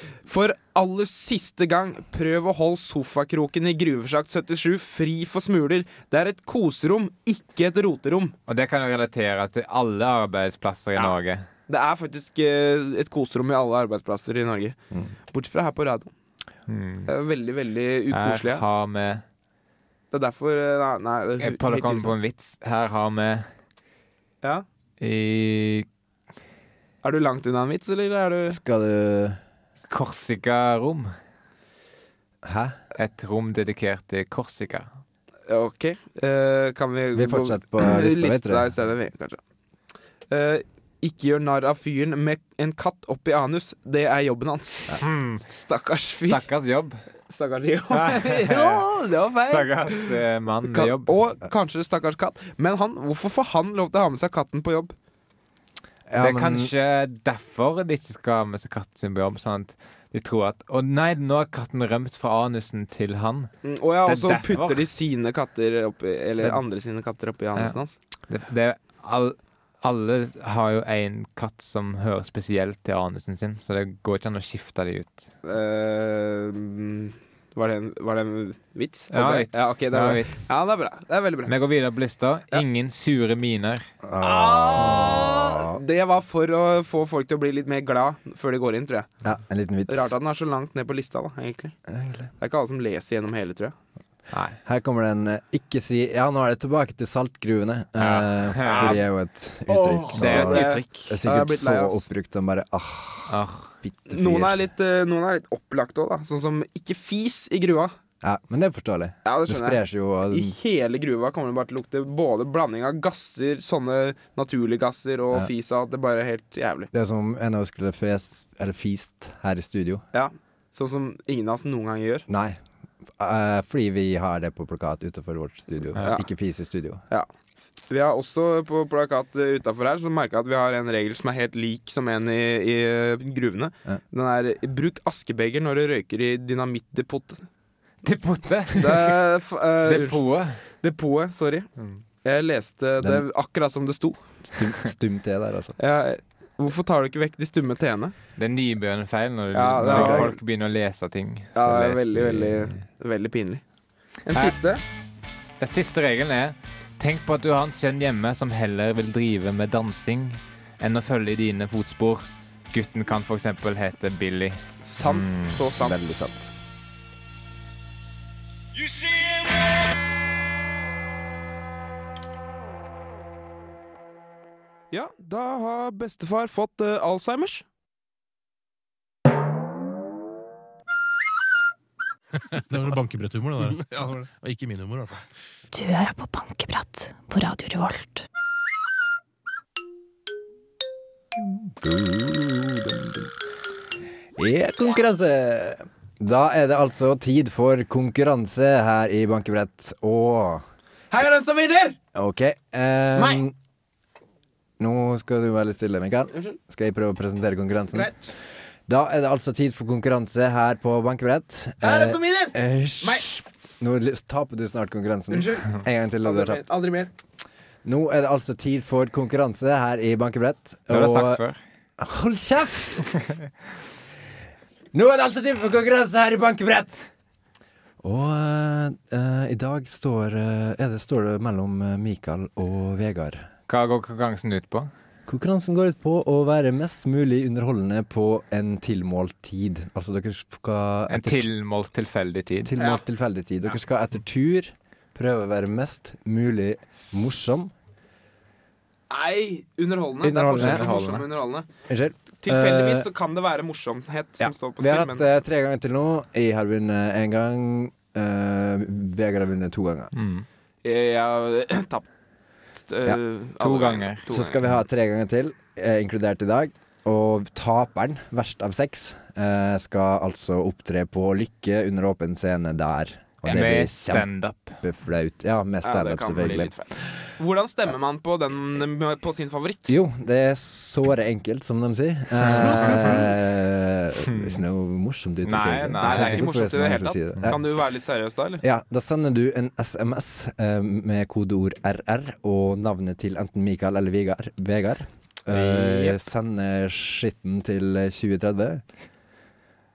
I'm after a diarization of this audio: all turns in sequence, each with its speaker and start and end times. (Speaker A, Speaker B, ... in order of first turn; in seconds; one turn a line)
Speaker A: 0.3-8.3
Speaker B: 8.5-11.5
Speaker A: 11.7-14.8
Speaker A: 15.3-16.1
Speaker B: 16.7-17.1
Speaker A: 17.1-18.6
Speaker B: 18.1-19.2
Speaker A: 20.1-22.1
Speaker B: 21.4-23.5
Speaker B: 25.0-25.9
Speaker A: 27.0-28.6
Speaker C: 28.5-29.4
Speaker B: 29.9-31.1
Speaker C: 32.4-32.8
Speaker B: 33.0-34.9
Speaker A: 35.5-39.4
Speaker C: 37.1-38.7
Speaker A: 40.3-46.5
Speaker B: 45.0-45.4
Speaker B: 46.3-47.0
Speaker A: 47.3-54.9
Speaker B: 47.9-48.9
Speaker B: 49.5-51.1
Speaker C: 56.1-56.7
Speaker B: 56.2-63.5
Speaker A: 63.6-68.0
Speaker B: 64.0-64.9
Speaker B: 68.3-75.3
Speaker A: 75.4-81.5
Speaker B: 79.1-80.5
Speaker B: 81.5-83.8
Speaker C: 84.0-85.8
Speaker A: 84.2-89.1
Speaker C: 89.2-90.1
Speaker A: 89.9-91.8
Speaker C: 91.9-92.3
Speaker A: 92.4-93.7
Speaker B: 94.3-94.6
Speaker C: 94.7-104.6
Speaker B: 98.0-99.0
Speaker A: 98.7-99.0
Speaker A: 99.7-102.1
Speaker B: 100.1-101.2
Speaker B: 103.3-103.7
Speaker A: 104.1-107.9
Speaker C: 108.2-110.5
Speaker A: 109.2-116.9
Speaker C: 116.9-120.0
Speaker A: 120.1-122.3
Speaker C: 122.3-122.6
Speaker C: 123.2-127.0
Speaker A: 127.9-137.4
Speaker B: 138.0-139.2
Speaker A: 138.7-140.2
Speaker B: 139.8-140.6
Speaker A: 140.8-141.7
Speaker A: 142.2-144.2
Speaker C: 143.0-143.2
Speaker C: 144.4-145.8
Speaker A: 145.8-148.1
Speaker B: 148.4-152.7
Speaker A: 149.5-150.4
Speaker C: 149.9-150.3
Speaker A: 151.6-153.6
Speaker A: 154.3-154.8
Speaker B: 155.6-165.6
Speaker A: 164.8-166.3
Speaker C: 165.8-166.5
Speaker A: 168.8-169.4
Speaker A: 174.9-177.7
Speaker D: 182.4-185.2
Speaker E: 185.7-188.2
Speaker C: 191.4-193.3
Speaker C: 194.4-200.7
Speaker A: 201.1-202.0
Speaker C: 202.2-203.6
Speaker A: 203.2-203.4
Speaker C: 204.8-208.1
Speaker A: 207.9-208.3
Speaker C: 208.9-216.7
Speaker A: 211.8-213.3
Speaker A: 215.3-217.1
Speaker C: 217.8-221.4
Speaker B: 220.9-221.6
Speaker C: 222.0-223.1
Speaker C: 224.9-227.0
Speaker C: 228.0-233.5
Speaker B: 233.7-234.9
Speaker C: 235.3-241.5
Speaker B: 241.1-242.7
Speaker C: 242.6-247.7
Speaker A: 242.8-243.0
Speaker A: 249.1-251.7
Speaker C: 250.2-250.9
Speaker B: 250.4-251.2
Speaker C: 251.9-253.1
Speaker A: 252.4-255.2
Speaker C: 254.4-260.1
Speaker B: 260.1-260.5
Speaker A: 260.8-262.1
Speaker A: 262.8-264.6
Speaker B: 263.6-264.3
Speaker C: 264.3-274.3
Speaker B: 273.5-274.8
Speaker C: 274.8-276.7
Speaker A: 275.8-280.0
Speaker C: 279.9-287.6
Speaker A: 282.6-283.2
Speaker B: 282.6-283.1
Speaker B: 284.2-284.6
Speaker B: 285.4-286.4
Speaker A: 286.0-288.6
Speaker C: 288.6-298.8
Speaker B: 295.5-296.2